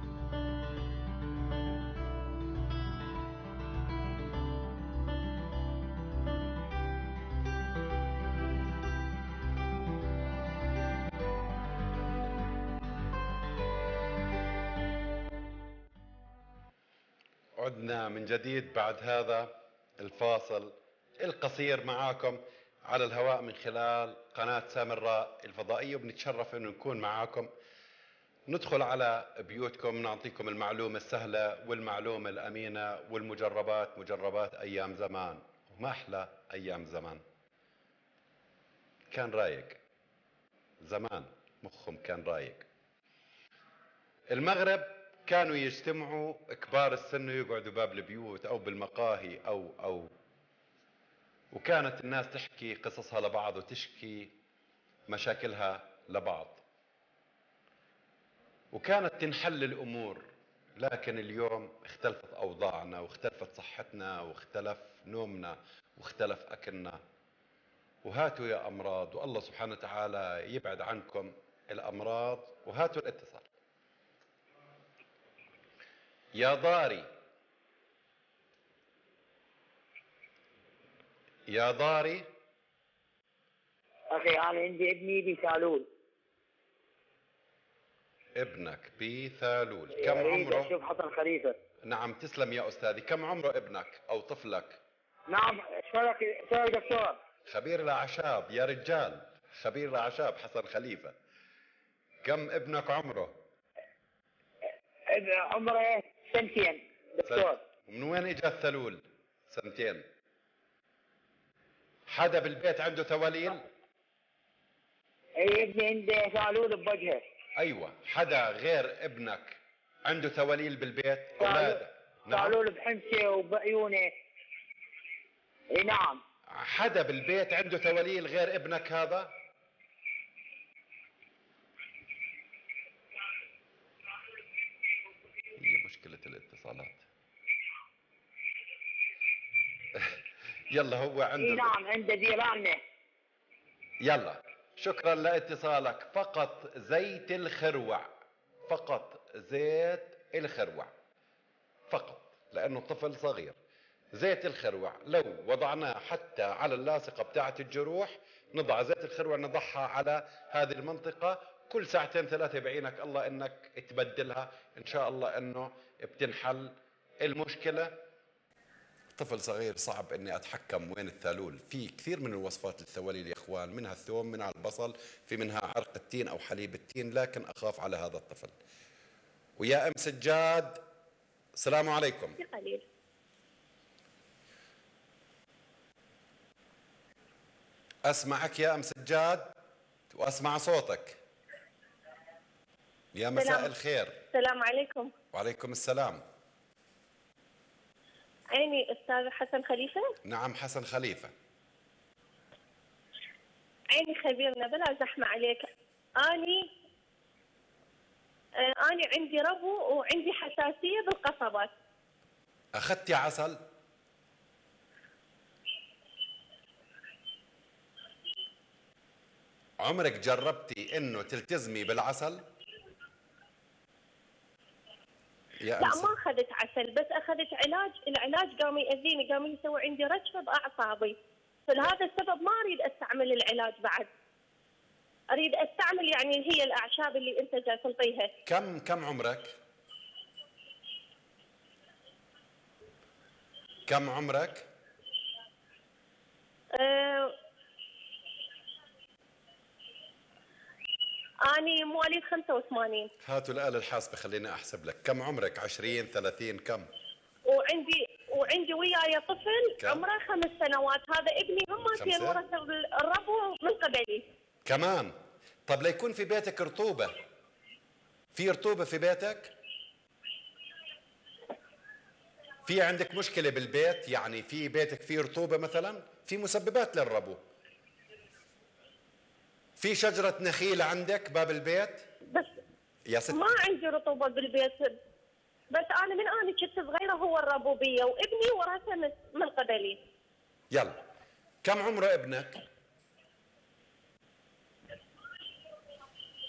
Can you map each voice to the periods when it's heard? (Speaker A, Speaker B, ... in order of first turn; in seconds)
Speaker A: 17.6-27.5, 28.5-37.2, 39.1-39.8, 40.8-42.6, 44.3-50.1, 51.5-54.3, 55.1-56.6, 58.7-60.2, 60.8-67.0, 68.0-73.5, 76.3-77.1, 81.5-82.3, 88.3-90.7, 91.8-94.8, 97.5-101.1, 102.2-103.3, 107.2-110.0, 112.1-113.6, 117.6-122.6, 126.5-129.3, 135.6-137.0, 140.7-141.7, 144.0-148.1, 148.7-150.9, 151.9-153.6, 154.1-168.0, 169.2-178.5, 179.6-180.8, 181.6-182.4, 188.1-189.5, 190.1-191.2, 193.1-194.2, 195.3-196.2, 200.2-201.3, 212.8-213.6, 219.8-222.4, 225.6-226.1, 238.4-239.5, 243.9-244.7, 253.2-256.9, 261.9-262.4, 264.6-265.1, 265.7-267.1, 268.3-269.5, 272.6-277.4, 279.8-282.1, 283.1-283.4, 290.7-291.0, 291.6-292.6
Speaker B: 84.1-85.8, 90.0-91.6, 95.3-97.2, 105.1-107.6, 115.4-117.2, 121.4-124.1, 125.7-126.2, 141.4-142.8
Speaker C: 182.4-182.8, 193.3-193.7, 194.3-195.1, 198.5-200.1, 203.9-205.7, 206.2-206.7, 208.6-211.7, 225.8-234.1, 235.3-238.3, 246.7-247.3, 251.5-253.1, 257.5-264.3, 283.3-284.9, 285.7-290.0